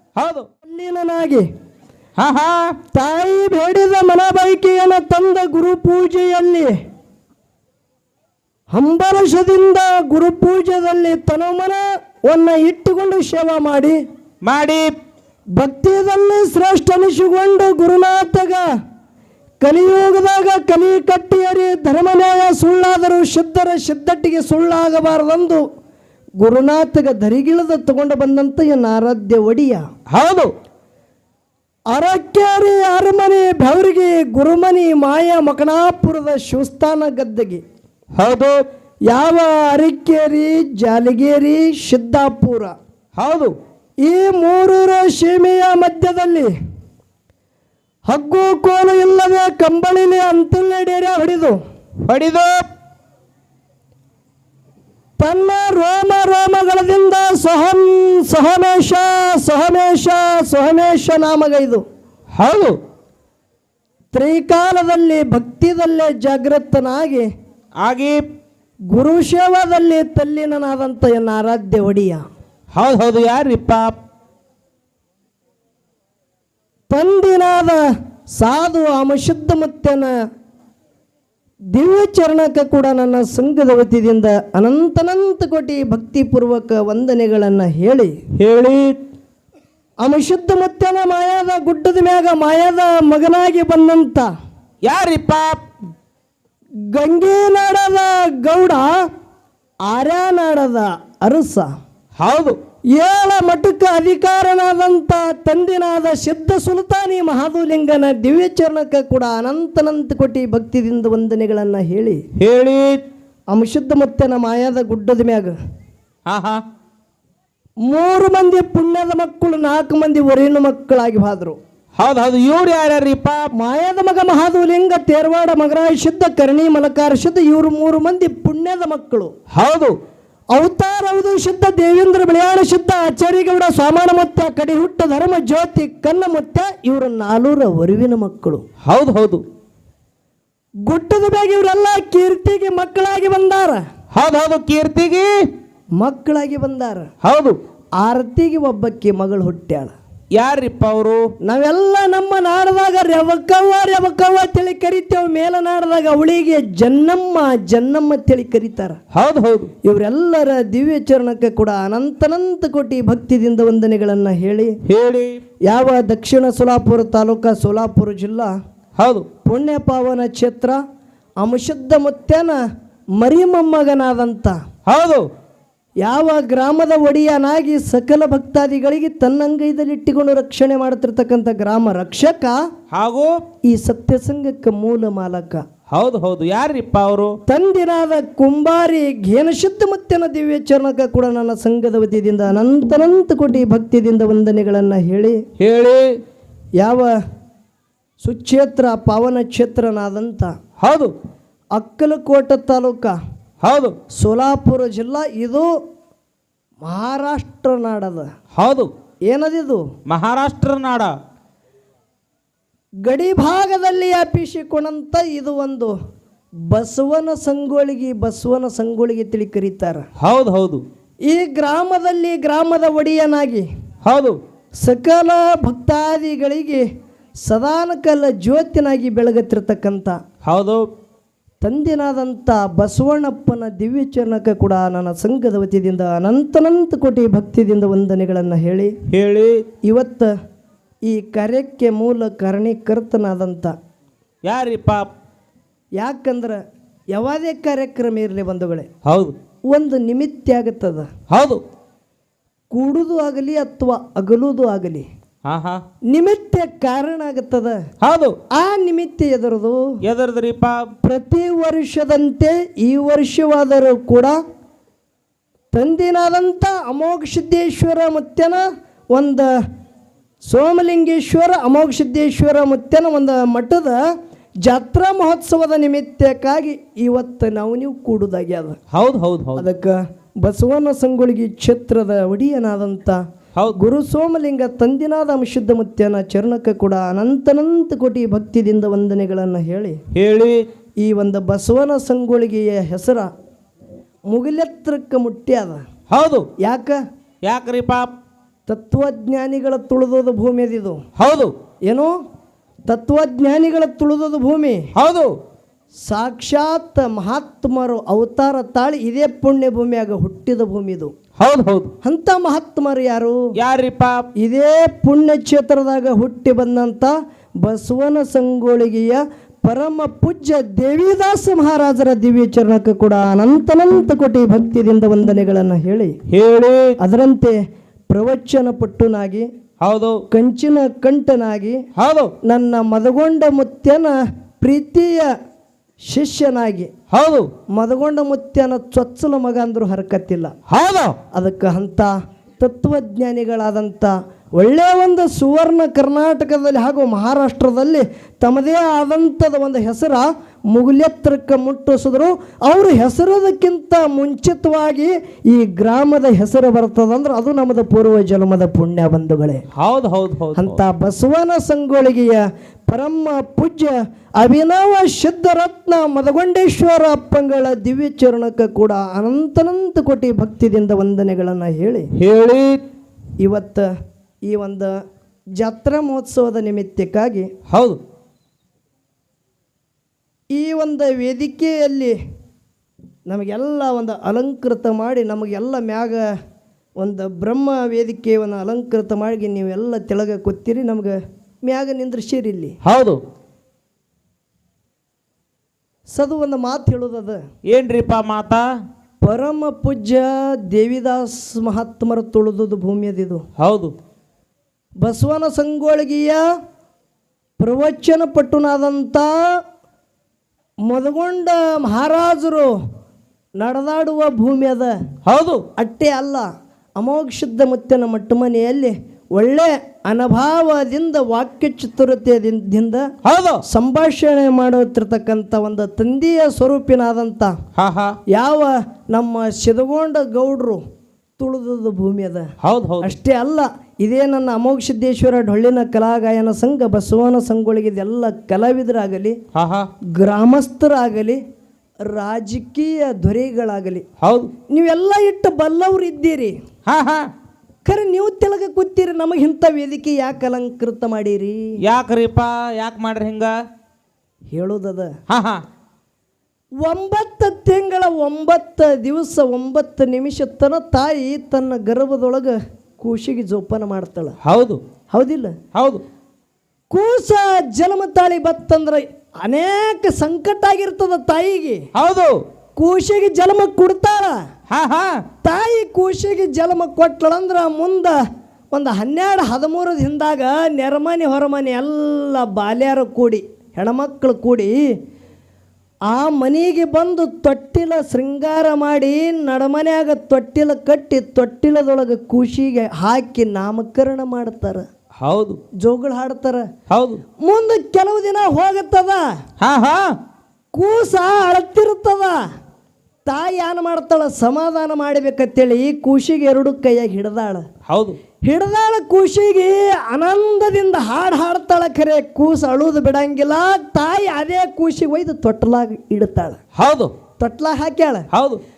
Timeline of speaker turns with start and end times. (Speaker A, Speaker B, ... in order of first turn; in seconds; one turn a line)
Speaker A: 0.1-0.5
Speaker B: 0.6-1.4
Speaker A: 2.2-2.7
Speaker B: 2.9-6.7
Speaker B: 8.7-14.0
Speaker A: 14.4-14.9
Speaker B: 15.6-18.6
Speaker B: 19.6-25.6
Speaker B: 26.4-29.8
Speaker A: 30.1-30.5
Speaker B: 31.9-37.6
Speaker A: 38.1-38.6
Speaker B: 39.1-42.7
Speaker A: 43.2-43.5
Speaker B: 44.0-46.5
Speaker B: 48.1-51.6
Speaker A: 52.1-52.6
Speaker B: 55.2-61.8
Speaker A: 62.3-62.8
Speaker B: 64.1-67.3
Speaker A: 67.8-68.2
Speaker B: 68.9-72.2
Speaker A: 72.7-73.9
Speaker B: 76.9-77.8
Speaker B: 78.4-80.1
Speaker B: 81.7-88.1
Speaker A: 88.4-89.0
Speaker B: 90.0-94.3
Speaker A: 94.8-95.6
Speaker B: 96.9-99.0
Speaker B: 99.9-101.7
Speaker A: 102.2-102.6
Speaker B: 102.9-112.2
Speaker A: 112.4-113.0
Speaker B: 113.5-115.5
Speaker A: 116.3-116.6
Speaker B: 117.8-121.6
Speaker A: 122.0-123.5
Speaker B: 123.5-129.3
Speaker A: 129.5-130.0
Speaker B: 130.5-138.6
Speaker A: 138.8-139.4
Speaker B: 140.9-143.8
Speaker A: 144.1-145.5
Speaker B: 146.0-147.1
Speaker A: 147.2-147.6
Speaker B: 148.0-149.9
Speaker A: 150.3-151.2
Speaker B: 151.4-159.0
Speaker A: 159.1-159.7
Speaker B: 159.8-164.8
Speaker A: 164.9-165.4
Speaker B: 165.7-168.5
Speaker A: 169.0-169.3
Speaker B: 169.4-170.8
Speaker B: 171.4-172.6
Speaker B: 173.2-174.6
Speaker A: 174.9-175.3
Speaker B: 176.0-182.6
Speaker A: 182.9-183.4
Speaker B: 183.7-185.6
Speaker A: 185.9-187.3
Speaker B: 187.5-195.4
Speaker A: 195.6-196.2
Speaker B: 196.8-197.1
Speaker B: 198.2-200.6
Speaker A: 200.8-201.1
Speaker B: 201.8-203.2
Speaker A: 203.6-203.9
Speaker B: 204.1-205.7
Speaker B: 206.8-208.3
Speaker A: 208.6-208.9
Speaker B: 209.3-209.8
Speaker A: 210.1-211.1
Speaker B: 213.0-215.9
Speaker B: 216.7-220.0
Speaker A: 220.2-220.8
Speaker B: 221.2-223.7
Speaker A: 224.0-224.4
Speaker B: 224.8-226.8
Speaker B: 227.4-230.2
Speaker A: 230.4-230.9
Speaker B: 231.6-238.9
Speaker A: 239.1-239.7
Speaker B: 239.8-240.3
Speaker B: 241.1-243.8
Speaker A: 244.4-245.1
Speaker B: 246.0-246.6
Speaker B: 247.1-248.9
Speaker A: 249.0-249.3
Speaker B: 249.7-251.1
Speaker A: 251.3-251.6
Speaker B: 252.7-255.1
Speaker A: 255.4-255.8
Speaker B: 256.1-257.8
Speaker A: 258.0-258.4
Speaker B: 258.5-259.8
Speaker A: 260.0-260.9
Speaker B: 261.0-264.4
Speaker B: 265.7-269.5
Speaker B: 270.4-274.0
Speaker B: 274.6-278.8
Speaker A: 278.9-279.6
Speaker B: 279.6-283.2
Speaker B: 283.8-290.0
Speaker A: 290.1-290.6
Speaker B: 291.0-293.3
Speaker B: 294.3-295.8
Speaker A: 296.1-296.5
Speaker B: 296.6-297.0
Speaker A: 297.4-298.1
Speaker B: 298.7-301.0
Speaker A: 301.2-301.5
Speaker B: 301.9-302.1
Speaker B: 302.9-304.8
Speaker A: 304.9-305.3
Speaker B: 306.1-311.1
Speaker A: 311.4-311.9
Speaker B: 312.0-313.4
Speaker A: 313.6-314.2
Speaker B: 314.4-326.1
Speaker A: 326.3-326.9
Speaker B: 327.0-327.6
Speaker B: 328.1-329.5
Speaker A: 329.8-330.2
Speaker B: 330.3-331.8
Speaker A: 331.9-332.3
Speaker B: 332.4-335.3
Speaker B: 336.0-336.9
Speaker A: 337.1-337.5
Speaker B: 337.7-340.5
Speaker A: 340.7-341.2
Speaker B: 341.3-359.6
Speaker A: 359.8-360.8
Speaker B: 360.6-372.1
Speaker A: 372.2-372.8
Speaker B: 373.4-373.9
Speaker B: 374.5-374.9
Speaker B: 375.6-377.5
Speaker A: 377.7-378.0
Speaker B: 380.5-382.1
Speaker B: 383.3-386.2
Speaker B: 387.0-392.8
Speaker A: 392.8-393.2
Speaker B: 396.1-397.4
Speaker A: 397.7-398.7
Speaker B: 399.2-403.4
Speaker A: 403.6-403.9
Speaker B: 405.0-406.4
Speaker B: 407.6-409.6
Speaker B: 410.9-412.7
Speaker B: 413.6-414.9
Speaker A: 415.2-415.6
Speaker B: 415.8-416.5
Speaker B: 417.0-423.0
Speaker A: 423.2-423.6
Speaker B: 423.6-427.5
Speaker A: 427.8-428.2
Speaker B: 428.3-430.8
Speaker B: 431.4-432.5
Speaker A: 432.6-433.1
Speaker B: 433.0-439.4
Speaker A: 439.5-439.9
Speaker B: 440.1-441.4
Speaker B: 442.1-444.0
Speaker A: 444.2-444.5
Speaker B: 444.7-446.5
Speaker A: 446.9-447.3
Speaker B: 447.8-451.8
Speaker A: 451.8-453.5
Speaker B: 454.5-455.1
Speaker A: 455.3-455.6
Speaker B: 456.8-464.4
Speaker A: 464.4-464.8
Speaker B: 465.1-465.6
Speaker A: 465.7-466.0
Speaker B: 466.9-471.8
Speaker A: 471.9-472.4
Speaker B: 472.8-474.4
Speaker A: 474.7-475.2
Speaker B: 475.4-478.2
Speaker B: 478.7-484.7
Speaker B: 486.1-494.9
Speaker A: 495.2-495.6
Speaker B: 495.8-496.6
Speaker A: 496.9-497.2
Speaker B: 497.4-499.2
Speaker A: 499.6-500.1
Speaker B: 500.7-502.4
Speaker B: 503.3-507.6
Speaker A: 507.9-508.2
Speaker B: 508.4-516.6
Speaker A: 516.8-517.1
Speaker B: 517.4-518.3
Speaker A: 518.3-518.6